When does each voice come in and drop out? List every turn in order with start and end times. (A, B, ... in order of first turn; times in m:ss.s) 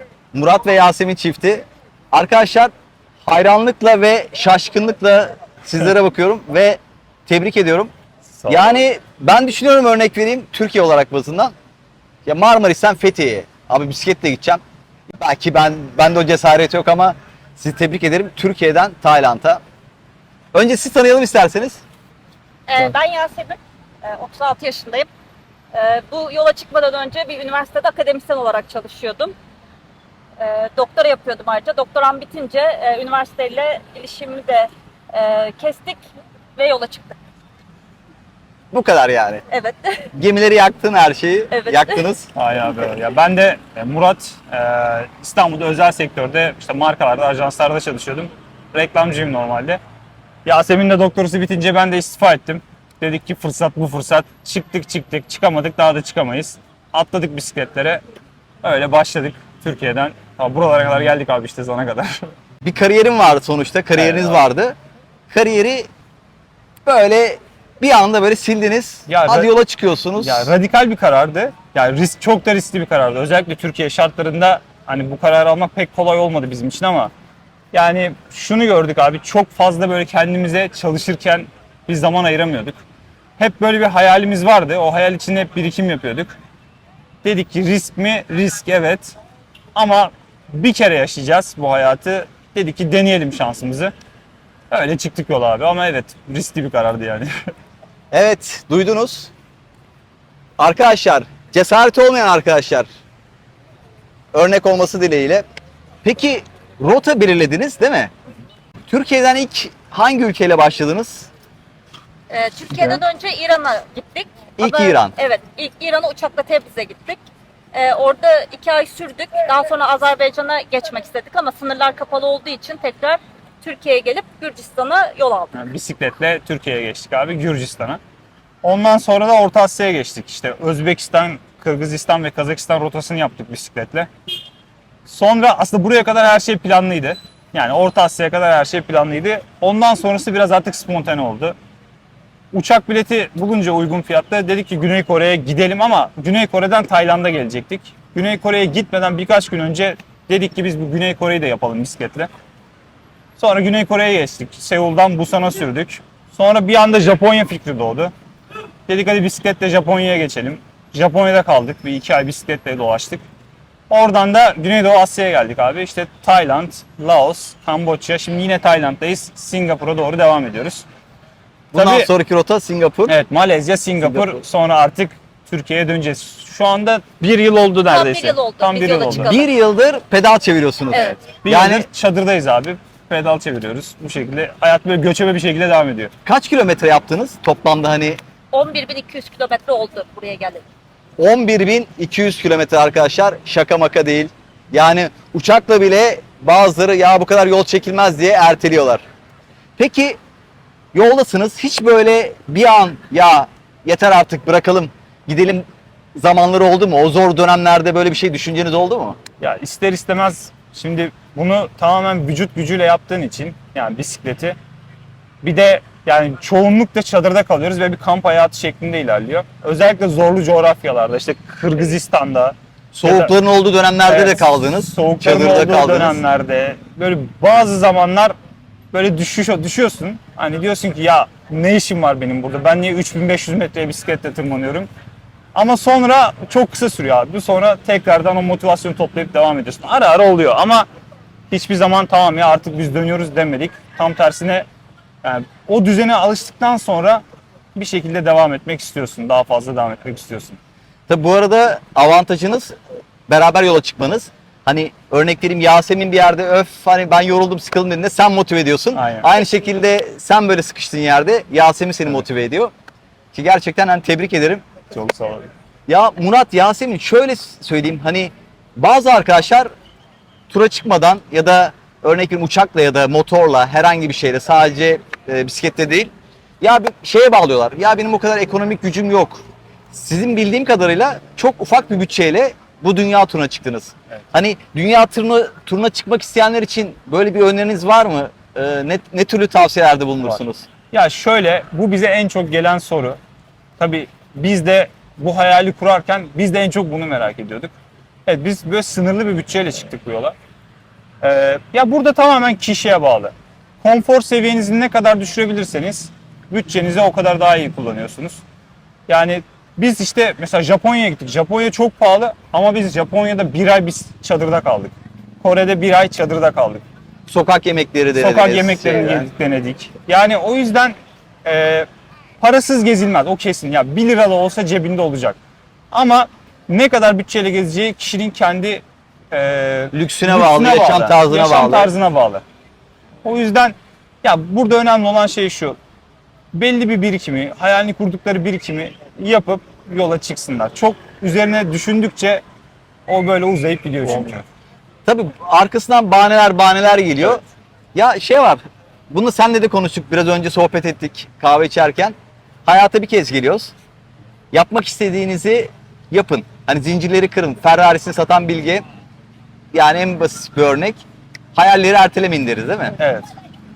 0:00.3-0:02.7 A
0:03.2-0:07.9 A
0:08.3-0:08.8 B
0:08.5-0:11.5 A
0:12.2-0:19.6 A
0:20.5-0:21.8 A
0:22.7-0:25.1 C
0:25.7-0:29.3 C
0:30.4-0:36.0 C
0:36.6-0:37.1 C
0:38.7-0:39.4 A
0:39.5-0:40.1 C
0:40.1-0:42.3 A
0:41.5-0:42.1 C
0:42.3-0:49.8 B
0:50.4-0:58.0 B
0:58.6-1:02.2 B
1:02.6-1:04.8 A
1:03.9-1:04.5 B
1:05.3-1:05.9 A
1:06.8-1:10.5 A
1:09.1-1:09.5 B
1:10.2-1:17.1 B
1:17.7-1:22.8 B
1:23.4-1:26.3 B
1:27.2-1:29.2 B
1:29.7-1:33.9 B
1:34.7-1:37.3 B
1:38.1-1:39.3 A
1:40.6-1:42.8 A
1:44.3-1:45.4 A
1:46.0-1:48.1 A
1:48.9-1:51.3 A
1:52.3-1:57.2 C
1:54.6-1:55.2 A
1:57.7-2:05.5 C
2:05.5-2:08.0 B
2:08.6-2:14.1 B
2:15.0-2:21.6 B
2:22.5-2:32.3 B
2:33.4-2:38.1 B
2:38.9-2:43.2 B
2:43.9-2:50.8 B
2:51.7-2:53.2 A
2:51.7-2:52.1 B
2:53.1-2:59.3 B
2:54.0-2:54.4 A
2:57.9-2:59.5 C
2:59.3-3:01.9 A
3:00.9-3:01.2 C
3:01.4-3:06.1 B
3:06.2-3:08.2 A
3:08.5-3:10.6 C
3:11.2-3:19.0 A
3:19.8-3:20.2 A
3:20.9-3:25.6 A
3:26.2-3:29.2 A
3:29.4-3:34.6 B
3:35.4-3:43.3 B
3:42.9-3:46.2 A
3:44.0-3:48.3 B
3:48.9-3:54.9 B
3:55.5-4:00.9 B
4:01.5-4:04.6 B
4:05.2-4:07.2 B
4:07.7-4:10.6 B
4:11.1-4:12.8 A
4:13.3-4:22.7 A
4:18.9-4:19.3 B
4:23.3-4:24.6 A
4:24.9-4:25.5 B
4:25.9-4:29.7 A
4:30.5-4:50.6 A
4:50.2-4:53.2 B
4:53.8-4:57.7 B
4:58.2-5:00.3 B
5:01.2-5:08.4 B
5:09.1-5:16.8 B
5:17.3-5:19.3 A
5:18.1-5:21.9 B
5:22.4-5:25.4 B
5:25.9-5:32.4 B
5:29.9-5:31.9 A
5:33.2-5:35.8 B
5:36.5-5:42.4 B
5:43.1-5:44.4 B
5:45.0-5:47.4 A
5:47.9-5:52.1 A
5:52.6-5:53.7 A
5:54.5-5:58.8 A
5:59.7-6:01.0 A
6:01.5-6:03.0 A
6:03.0-6:03.3 B